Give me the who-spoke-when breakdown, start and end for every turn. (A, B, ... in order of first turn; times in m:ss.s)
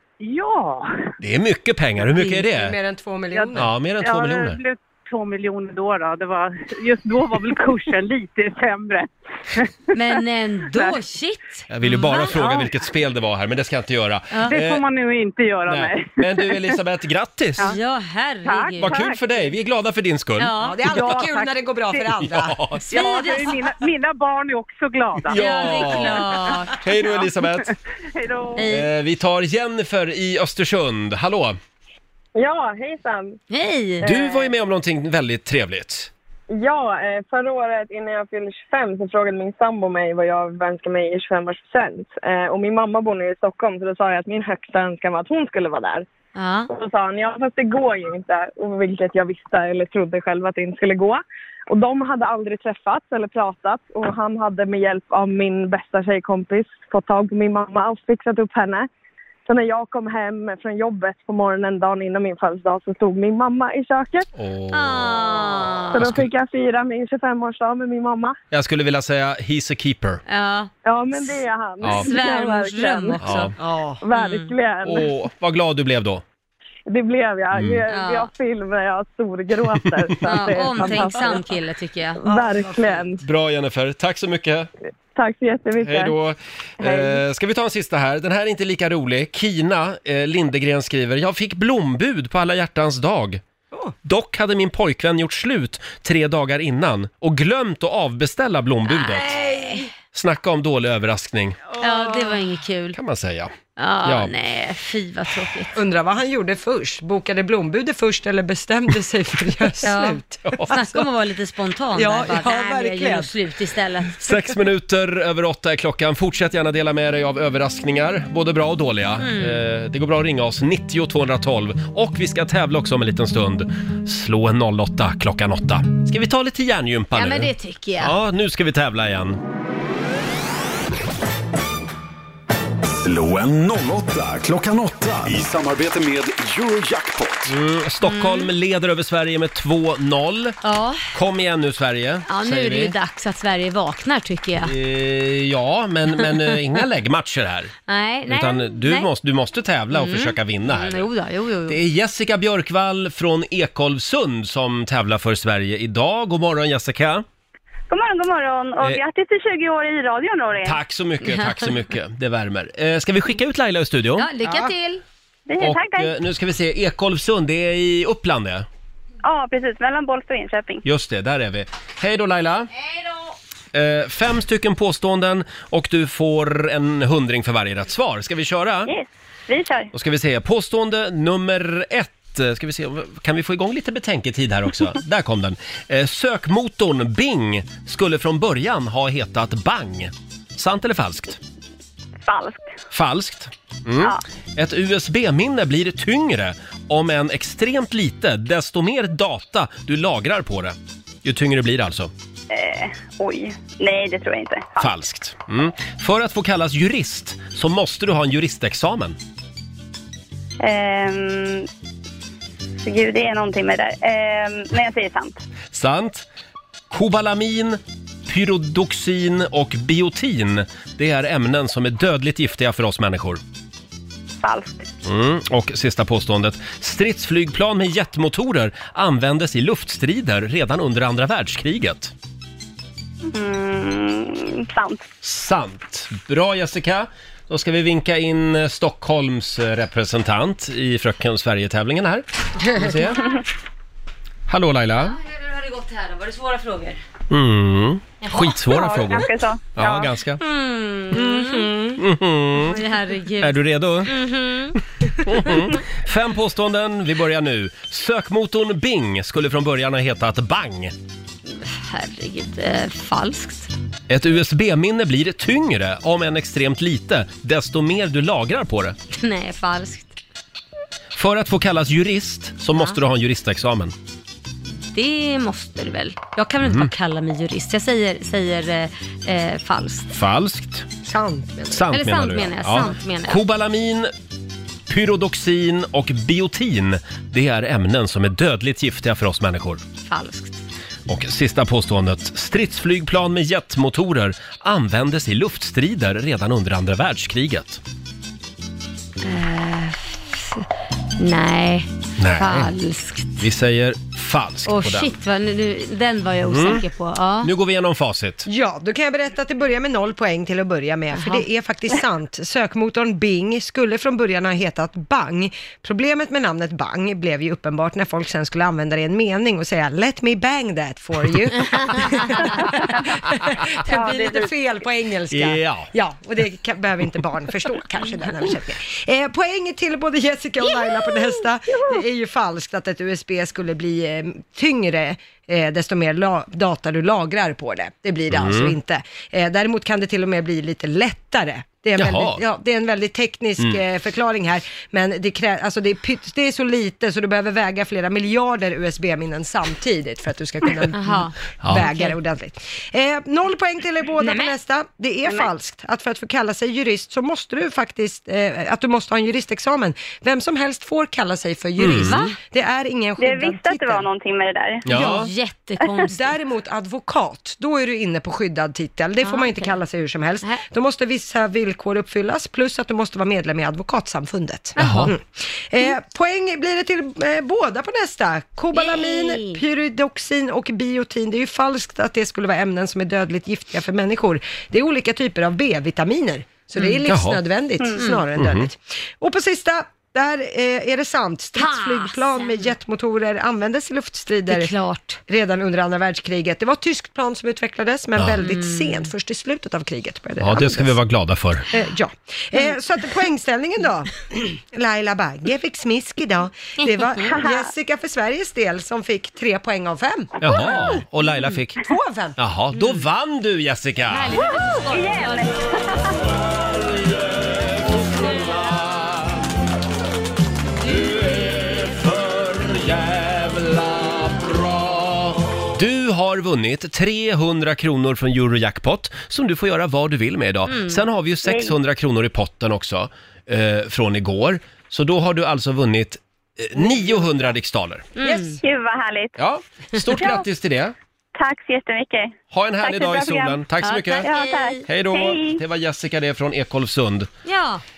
0:00.2-0:00.9 A
0:01.2-0:02.7 B
0:02.1-0:02.4 C
0:02.5-0:03.7 D
0:03.3-0:10.2 A
0:03.5-0:04.6 B
0:09.9-0:12.7 C
0:11.7-0:14.8 B
0:14.3-0:14.6 C
0:14.5-0:16.7 A
0:15.7-0:17.7 B
0:17.6-0:19.0 C
0:18.4-0:19.5 A
0:18.8-0:20.5 B
0:20.4-0:20.8 C
0:20.6-0:23.6 D
0:20.8-0:22.2 A
0:22.3-0:22.8 B
0:22.9-0:28.7 A
0:25.3-0:27.6 B
0:25.3-0:26.8 C
0:28.6-0:28.9 C
0:28.7-0:31.6 B
0:32.4-0:33.4 E
0:33.5-0:34.1 C
0:34.0-0:36.1 B
0:34.1-0:34.4 E
0:36.5-0:46.0 E
0:46.3-0:46.7 C
0:46.7-0:58.9 E
0:59.4-1:04.3 E
1:04.3-1:06.2 B
1:04.7-1:06.2 C
1:05.9-1:08.4 E
1:08.5-1:10.2 B
1:10.3-1:10.7 C
1:10.8-1:13.2 E
1:11.8-1:12.1 B
1:11.8-1:13.5 C
1:13.2-1:13.5 B
1:13.6-1:14.0 D
1:14.0-1:15.1 E
1:14.1-1:14.5 C
1:14.8-1:16.2 B
1:16.9-1:21.5 E
1:17.5-1:17.8 B
1:17.9-1:18.3 C
1:20.2-1:22.2 C
1:20.6-1:21.3 D
1:22.2-1:23.2 E
1:22.2-1:23.0 D
1:23.2-1:24.7 B
1:25.1-1:26.1 E
1:25.8-1:33.4 B
1:26.8-1:27.2 E
1:34.0-1:39.4 B
1:38.9-1:39.9 C
1:39.4-1:39.8 D
1:40.1-1:41.6 B
1:41.8-1:43.0 C
1:41.8-1:42.4 D
1:42.9-1:44.3 B
1:43.8-1:45.8 C
1:45.7-1:51.0 D
1:49.8-1:54.2 C
1:50.4-1:50.7 B
1:51.9-1:53.3 D
1:54.2-2:09.4 B
1:59.2-1:59.6 C
2:07.1-2:08.1 C
2:13.0-2:17.5 F
2:17.4-2:20.6 B
2:18.0-2:18.5 C
2:20.6-2:21.0 C
2:21.1-2:23.0 B
2:22.3-2:24.7 C
2:24.6-2:27.7 B
2:27.9-2:29.1 C
2:28.2-2:31.1 B
2:29.9-2:31.8 C
2:31.6-2:37.2 B
2:37.9-2:40.8 G
2:40.6-2:44.3 B
2:44.2-2:45.0 C
2:45.5-2:46.1 G
2:45.6-2:48.6 B
2:49.2-2:50.8 G
2:50.8-2:52.7 B
2:53.7-2:58.9 B
2:58.8-2:59.9 G
2:59.9-3:11.4 B
3:12.2-3:12.7 G
3:12.9-3:22.1 B
3:22.5-3:24.9 G
3:24.8-3:29.2 B
3:30.6-3:31.7 G
3:32.8-3:35.4 G
3:35.7-3:36.2 B
3:36.9-3:43.4 B
3:44.4-3:44.8 G
3:45.0-3:52.1 B
3:53.3-3:55.0 G
3:55.2-4:03.3 B
4:04.5-4:05.2 B
4:05.0-4:07.0 C
4:07.3-4:10.4 B
4:08.2-4:08.6 C
4:08.6-4:10.1 G
4:10.4-4:12.0 C
4:12.0-4:12.8 B
4:12.6-4:14.8 C
4:13.4-4:14.1 B
4:15.2-4:20.9 B
4:21.5-4:23.7 C
4:24.1-4:29.0 B
4:29.1-4:30.2 C
4:31.1-4:33.9 B
4:34.9-4:40.1 C
4:36.6-4:36.9 B
4:40.1-4:40.8 B
4:41.0-4:41.8 D
4:41.7-4:44.1 B
4:41.9-4:43.4 C
4:44.9-4:49.8 B
4:50.0-4:50.6 C
4:51.1-4:57.8 B
4:59.2-5:00.6 C
5:01.2-5:03.4 C
5:02.2-5:02.7 B
5:03.4-5:05.1 B
5:04.6-5:07.5 C
5:06.4-5:06.8 B
5:07.4-5:08.5 B
5:08.4-6:04.0 D
5:11.1-5:11.4 C
5:23.9-5:24.5 G
5:25.3-5:25.9 B
5:38.3-5:38.7 B
5:42.0-5:42.4 B
5:50.9-5:52.2 C
5:54.2-5:54.5 C
6:01.8-6:02.3 B
6:01.9-6:02.4 C
6:03.2-6:05.0 G
6:04.8-6:05.3 B
6:04.9-6:06.3 C
6:06.1-6:34.7 D
6:09.2-6:09.7 C
6:14.8-6:15.1 C
6:14.8-6:15.1 B
6:18.7-6:19.6 C
6:27.1-6:27.4 B
6:28.0-6:28.2 C
6:28.3-6:28.7 B
6:31.6-6:32.7 C
6:34.5-6:35.2 C
6:35.3-6:41.0 D
6:38.4-6:39.1 C
6:40.4-6:41.7 B
6:41.7-6:50.4 D
6:47.3-6:47.7 G
6:50.4-6:51.8 B
6:51.8-6:52.4 D
6:52.4-6:54.4 B
6:54.1-6:55.5 C
6:54.9-6:56.0 G
6:58.0-6:59.2 B
6:58.1-6:58.7 C
7:00.9-7:18.1 B
7:10.7-7:11.0 C
7:11.4-7:11.7 G
7:16.9-7:17.2 D
7:18.2-7:18.6 C
7:18.2-7:18.6 D
7:18.6-7:19.3 G
7:19.4-7:20.9 B
7:20.2-7:20.4 G
7:21.3-7:23.6 G
7:22.5-7:24.2 B
7:23.8-7:24.8 C
7:24.2-7:25.6 G
7:24.8-7:27.3 B
7:27.4-7:27.8 C